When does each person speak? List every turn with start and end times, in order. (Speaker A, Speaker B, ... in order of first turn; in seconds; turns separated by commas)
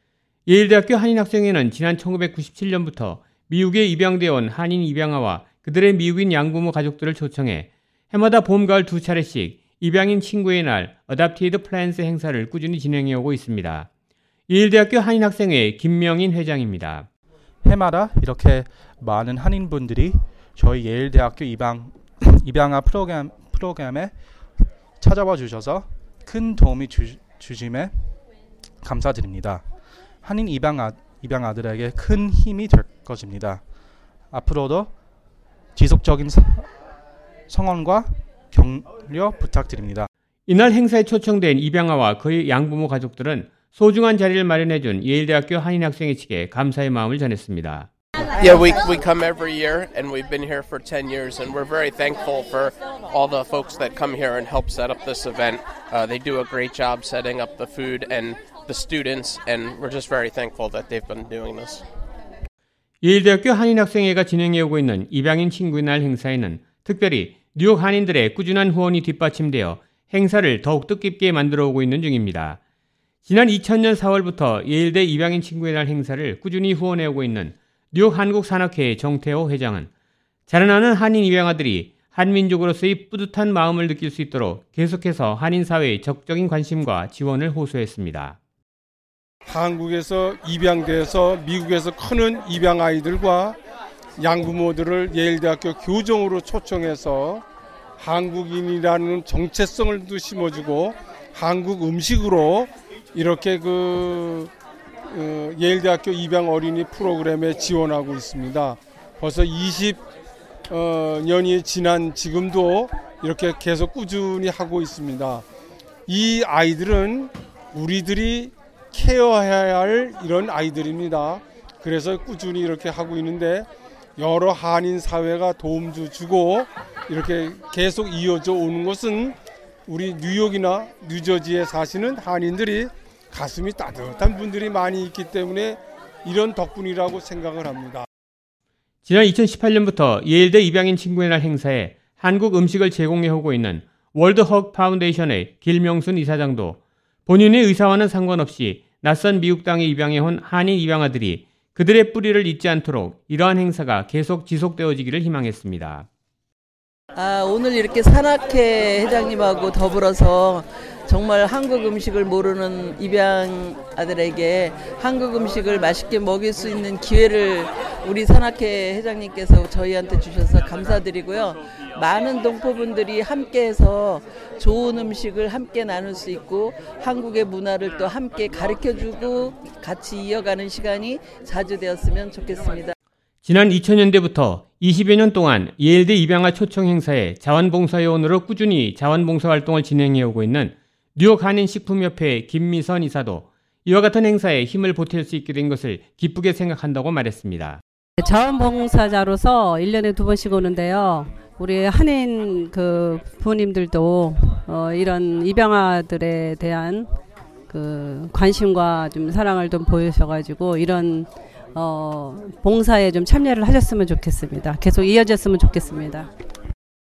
Speaker A: 0.5-13.9, Speaker A: 14.5-17.1, Speaker B: 17.6-24.1, Speaker B: 25.0-28.1, Speaker B: 28.8-29.6, Speaker B: 30.2-33.6, Speaker B: 34.3-34.9, Speaker B: 35.7-36.7, Speaker B: 37.5-40.1, Speaker A: 40.5-47.9, Speaker C: 48.3-61.8, Speaker A: 63.0-72.6, Speaker A: 73.2-79.9, Speaker A: 80.5-88.4, Speaker D: 89.5-93.6, Speaker D: 94.2-97.4, Speaker D: 98.0-104.5, Speaker D: 105.1-110.0, Speaker D: 110.7-115.4, Speaker D: 116.1-129.3, Speaker D: 129.9-138.1, Speaker A: 139.0-156.1, Speaker E: 157.2-182.9, Speaker A: 183.4-197.8, Speaker F: 198.2-207.1, Speaker F: 207.7-216.3